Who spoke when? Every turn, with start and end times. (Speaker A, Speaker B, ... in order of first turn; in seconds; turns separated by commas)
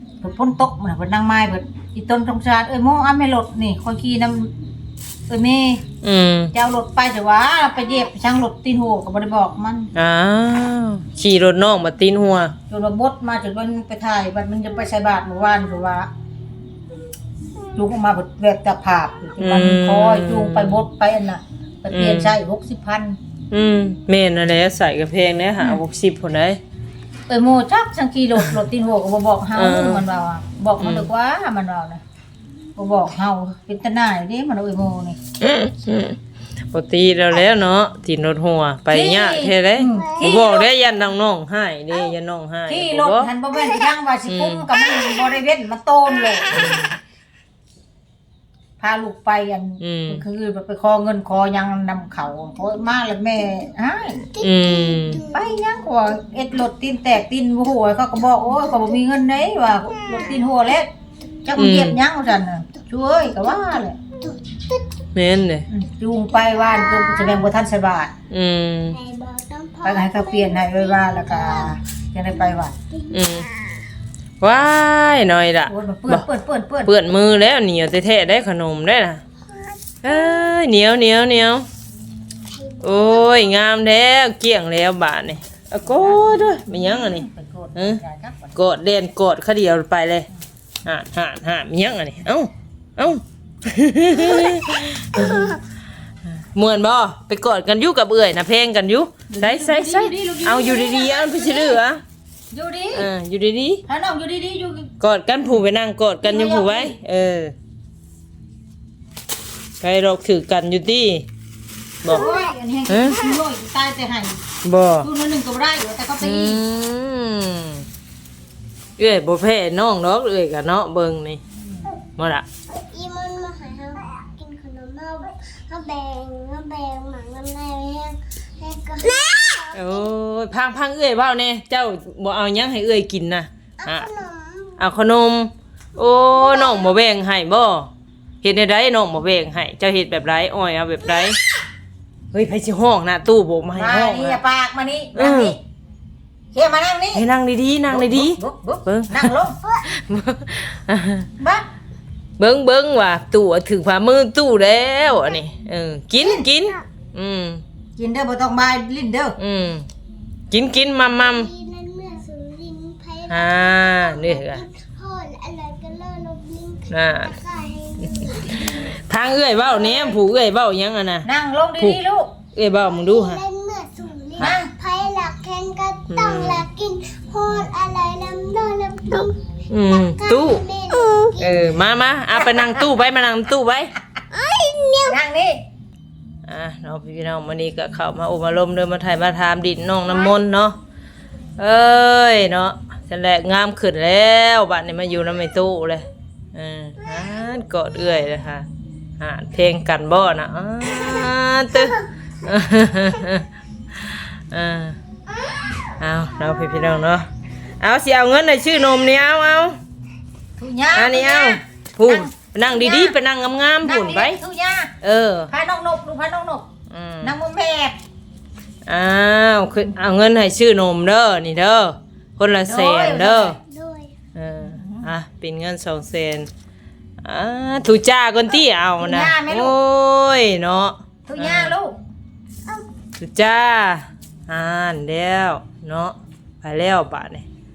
Speaker A: 0.2-4.5, Speaker A: 5.3-5.8, Speaker B: 6.0-6.5, Speaker A: 6.5-9.9, Speaker B: 9.9-12.6, Speaker A: 12.7-16.1, Speaker A: 17.7-23.2, Speaker B: 19.4-20.9, Speaker B: 21.9-22.4, Speaker B: 23.5-26.6, Speaker A: 27.3-32.0, Speaker B: 29.6-30.0, Speaker B: 30.8-31.1, Speaker A: 32.8-35.2, Speaker B: 35.4-36.2, Speaker B: 36.7-43.3, Speaker A: 38.9-40.7, Speaker C: 39.9-40.5, Speaker A: 42.7-46.8, Speaker C: 43.6-43.9, Speaker B: 44.3-44.7, Speaker C: 44.8-45.4, Speaker C: 46.3-46.7, Speaker B: 46.5-46.9, Speaker A: 48.8-54.3, Speaker B: 49.8-50.2, Speaker C: 54.3-55.5, Speaker B: 54.4-55.2, Speaker A: 55.3-60.9, Speaker A: 61.5-64.0, Speaker B: 61.6-62.0, Speaker C: 63.3-65.0, Speaker B: 65.2-65.7, Speaker A: 65.7-68.1, Speaker C: 66.3-67.5, Speaker B: 68.3-69.0, Speaker C: 68.9-71.8, Speaker A: 69.8-72.7, Speaker C: 72.9-73.9, Speaker B: 73.1-73.5, Speaker B: 74.4-76.3, Speaker A: 75.7-76.9, Speaker B: 76.8-79.2, Speaker C: 79.5-80.5, Speaker B: 80.0-81.7, Speaker C: 82.5-83.5, Speaker B: 82.8-88.0, Speaker A: 85.9-88.6, Speaker B: 88.5-90.3, Speaker B: 90.8-95.6, Speaker B: 96.3-102.0, Speaker A: 99.3-101.8, Speaker A: 102.5-103.1, Speaker B: 102.9-103.8, Speaker A: 103.9-104.9, Speaker B: 105.0-107.5, Speaker A: 106.2-107.0, Speaker B: 109.8-111.3, Speaker C: 112.1-112.5, Speaker A: 112.1-114.4, Speaker B: 112.9-113.2, Speaker B: 114.6-115.1, Speaker A: 115.0-116.6, Speaker B: 116.2-117.9, Speaker B: 119.0-121.4, Speaker A: 121.6-121.9, Speaker B: 122.2-122.5, Speaker C: 122.7-130.1, Speaker B: 129.7-134.1, Speaker C: 133.8-134.8, Speaker B: 134.8-137.9, Speaker C: 136.3-136.9, Speaker B: 138.4-141.4, Speaker B: 142.3-144.4, Speaker A: 143.8-145.6, Speaker B: 145.1-145.6, Speaker A: 146.5-147.3, Speaker B: 147.2-151.3, Speaker A: 147.9-149.6, Speaker C: 149.6-149.9, Speaker A: 151.4-151.7, Speaker B: 152.4-157.6, Speaker C: 156.2-156.8, Speaker A: 158.0-159.4, Speaker B: 159.4-159.9, Speaker B: 160.5-161.5, Speaker C: 161.1-169.0, Speaker B: 163.3-164.6, Speaker B: 166.9-167.4, Speaker B: 168.0-171.3, Speaker C: 169.6-170.2, Speaker A: 171.2-172.3, Speaker B: 172.6-173.4, Speaker C: 172.8-181.6, Speaker A: 174.4-174.7, Speaker B: 176.1-176.7, Speaker B: 179.7-180.7, Speaker B: 181.4-183.9, Speaker C: 184.3-185.2, Speaker A: 185.0-185.6, Speaker B: 186.5-190.8, Speaker B: 191.6-198.7, Speaker B: 199.2-205.0, Speaker C: 205.5-205.9, Speaker B: 206.0-209.8, Speaker A: 210.6-213.2, Speaker B: 210.9-214.4, Speaker A: 213.8-214.9, Speaker B: 215.0-215.5, Speaker A: 215.5-216.7, Speaker B: 216.9-217.4, Speaker A: 217.2-218.0, Speaker B: 218.9-223.6, Speaker A: 222.6-223.6, Speaker C: 223.6-224.1, Speaker B: 224.3-226.5, Speaker A: 224.6-225.1, Speaker B: 227.2-231.8, Speaker A: 229.0-229.8, Speaker A: 231.3-232.0, Speaker B: 233.2-237.5